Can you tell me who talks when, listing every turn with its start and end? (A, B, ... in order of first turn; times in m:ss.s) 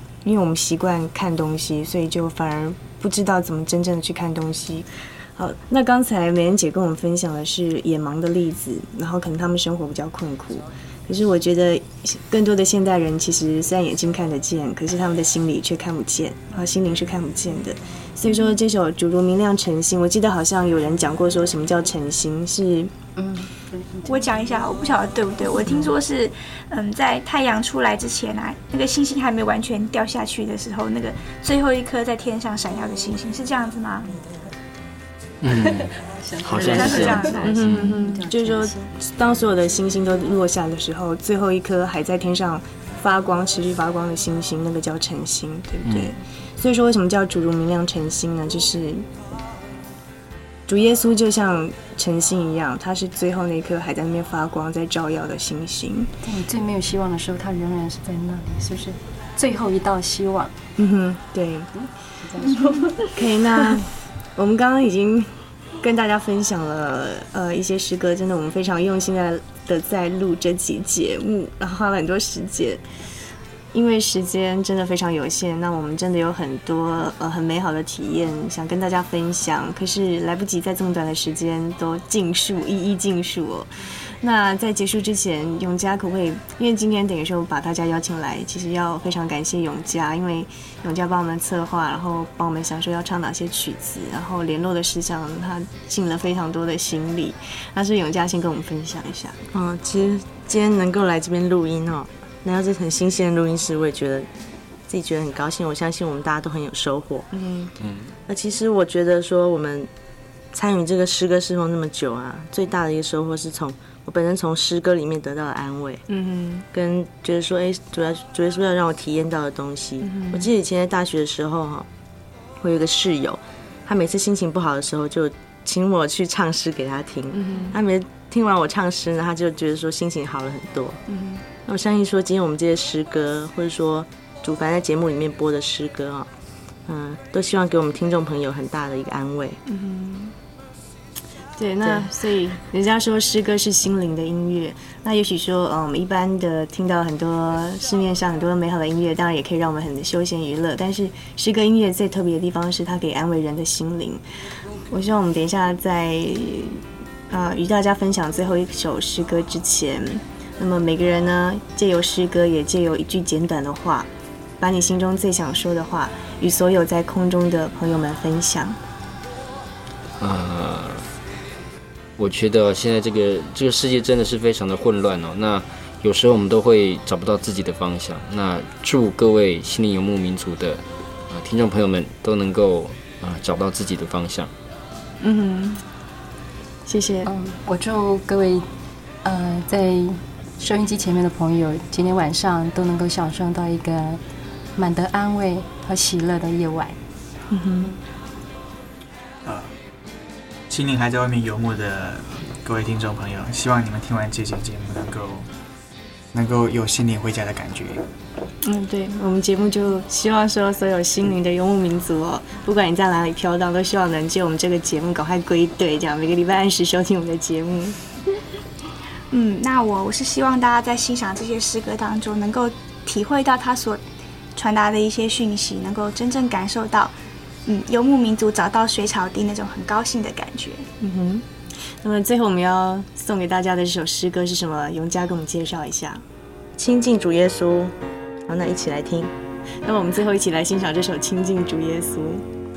0:00.2-0:22.9 A
0:23.2-0:24.2 B
0:24.1-0:34.1 C
0:35.4-0:35.9 D
0:35.6-0:38.9 B
0:36.4-0:37.9 D
0:36.6-0:37.5 C
0:37.4-0:49.1 A
0:45.8-0:46.1 D
0:50.7-0:56.1 A
0:56.2-1:00.5 B
1:00.8-1:01.7 A
1:01.8-1:02.9 B
1:03.1-1:12.8 A
1:13.7-1:39.4 A
1:39.5-1:44.3 E
1:44.9-1:47.3 E
1:47.3-1:47.7 A
1:47.8-1:48.1 D
1:48.3-1:49.9 E
1:50.5-1:56.0 E
1:56.1-1:56.6 A
1:56.7-2:01.9 E
2:00.0-2:00.5 A
2:02.6-2:11.0 E
2:07.3-2:07.8 A
2:11.1-2:11.4 A
2:11.6-2:16.3 E
2:16.9-2:19.6 E
2:19.7-2:20.3 A
2:21.6-2:34.2 A
2:34.9-2:48.8 A
2:50.2-2:51.1 D
2:52.2-3:04.5 D
3:05.2-3:05.8 A
3:06.8-3:07.3 A
3:07.2-3:08.7 B
3:09.2-3:14.2 B
3:14.8-3:17.0 B
3:17.5-3:18.0 A
3:19.4-3:19.7 F
3:20.7-3:25.5 F
3:26.3-3:28.0 F
3:28.6-3:38.0 A
3:39.3-3:44.0 C
3:44.6-3:47.1 C
3:47.7-3:50.9 C
3:51.0-3:56.2 A
3:56.8-3:58.0 E
3:58.5-3:59.3 E
3:59.8-4:02.4 A